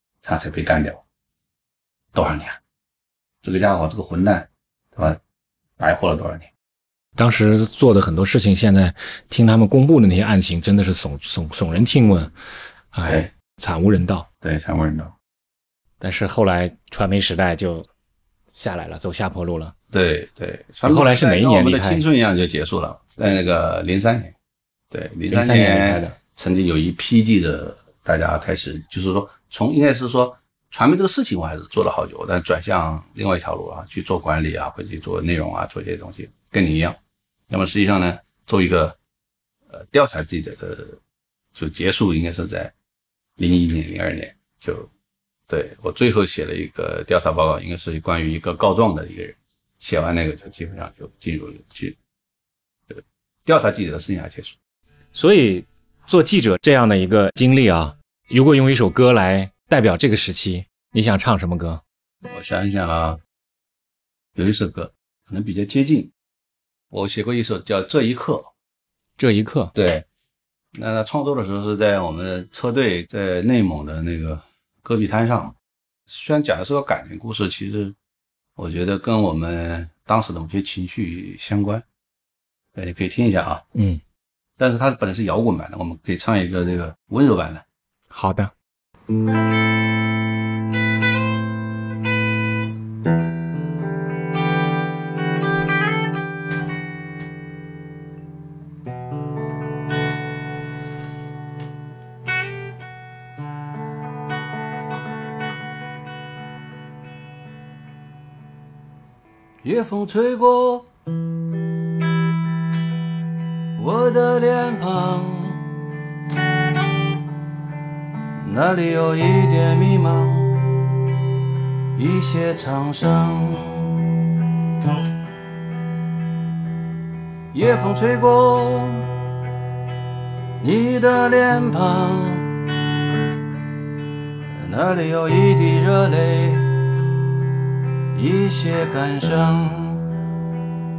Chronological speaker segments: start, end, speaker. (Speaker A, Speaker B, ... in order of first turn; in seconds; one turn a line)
Speaker A: 0.2-1.0
Speaker A: 2.1-2.6
Speaker A: 3.4-5.2
Speaker A: 5.8-6.5
Speaker B: 7.2-12.3
Speaker B: 12.9-14.3
Speaker A: 14.4-15.1
Speaker B: 16.0-17.9
Speaker B: 18.5-19.7
Speaker A: 19.9-24.3
Speaker B: 20.8-22.0
Speaker A: 24.9-37.0
Speaker B: 25.3-26.1
Speaker A: 37.5-39.0
Speaker A: 39.7-41.0
Speaker A: 41.5-42.7
Speaker A: 43.4-44.9
Speaker A: 45.5-52.0
Speaker A: 52.9-54.5
Speaker B: 55.1-61.8
Speaker A: 62.3-63.2
Speaker A: 64.3-66.1
Speaker A: 66.9-68.5
Speaker B: 69.2-69.7
Speaker A: 69.7-70.0
Speaker A: 70.7-75.5
Speaker A: 76.1-78.0
Speaker A: 78.5-81.8
Speaker A: 82.7-83.6
Speaker B: 83.7-84.0
Speaker A: 84.6-87.6
Speaker B: 88.1-88.5
Speaker C: 109.6-110.8
Speaker C: 113.8-115.6
Speaker C: 118.5-120.4
Speaker C: 122.0-124.0
Speaker C: 127.5-129.0
Speaker C: 130.6-132.4
Speaker C: 134.6-136.6
Speaker C: 138.2-140.1